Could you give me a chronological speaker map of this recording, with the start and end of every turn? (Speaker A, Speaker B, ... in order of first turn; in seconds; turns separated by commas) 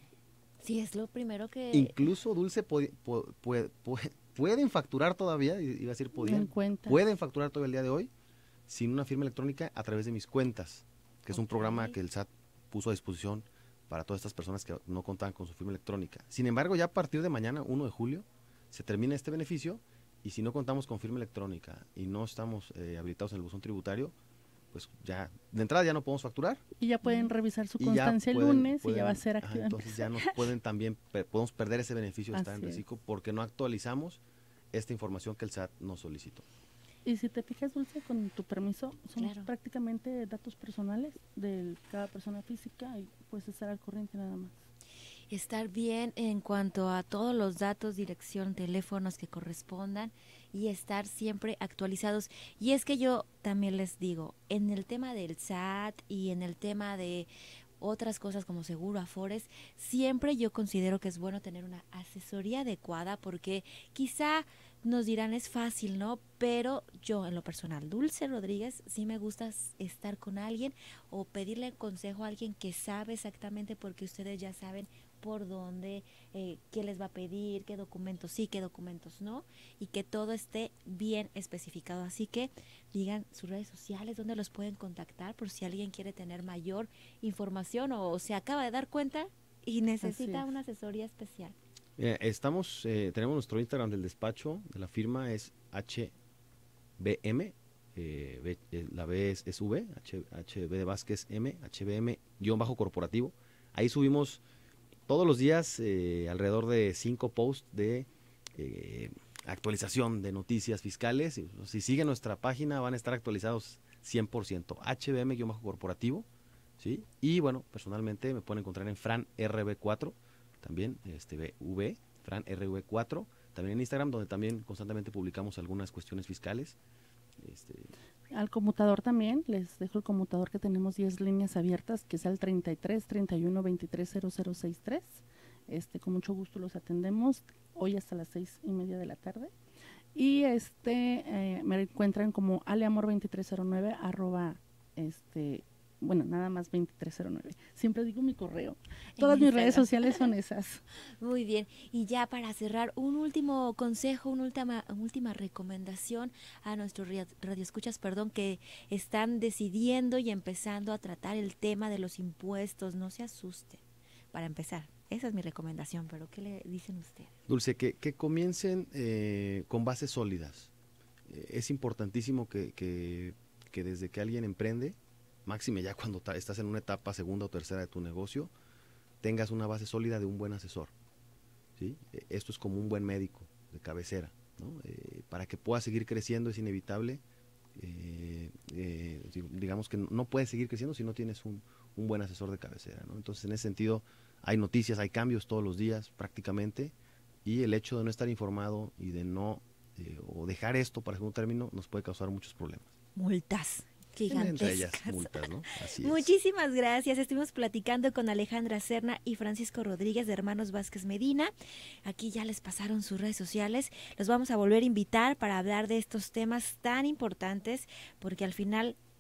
Speaker A: 0.6-2.0, Speaker B: 1.7-8.1, Speaker C: 6.2-7.0, Speaker B: 8.7-24.1, Speaker A: 11.4-11.9, Speaker B: 24.7-26.6, Speaker C: 26.8-30.4, Speaker A: 27.0-27.3, Speaker B: 27.8-34.2, Speaker C: 32.3-32.8, Speaker B: 34.7-36.5, Speaker C: 37.0-44.5, Speaker A: 39.2-39.5, Speaker A: 45.3-57.3, Speaker A: 57.8-91.6, Speaker C: 90.0-90.5, Speaker B: 92.0-96.2, Speaker B: 97.0-104.4, Speaker B: 105.1-116.3, Speaker B: 116.8-126.8, Speaker B: 127.4-127.9, Speaker C: 128.3-139.5, Speaker C: 140.2-150.8, Speaker A: 149.2-150.3, Speaker A: 151.2-163.8, Speaker A: 164.3-167.3, Speaker B: 167.5-170.7, Speaker B: 171.3-178.5, Speaker B: 179.2-180.9, Speaker B: 181.8-187.2, Speaker B: 187.8-202.9, Speaker A: 203.2-211.5, Speaker B: 204.3-206.3, Speaker A: 212.1-219.0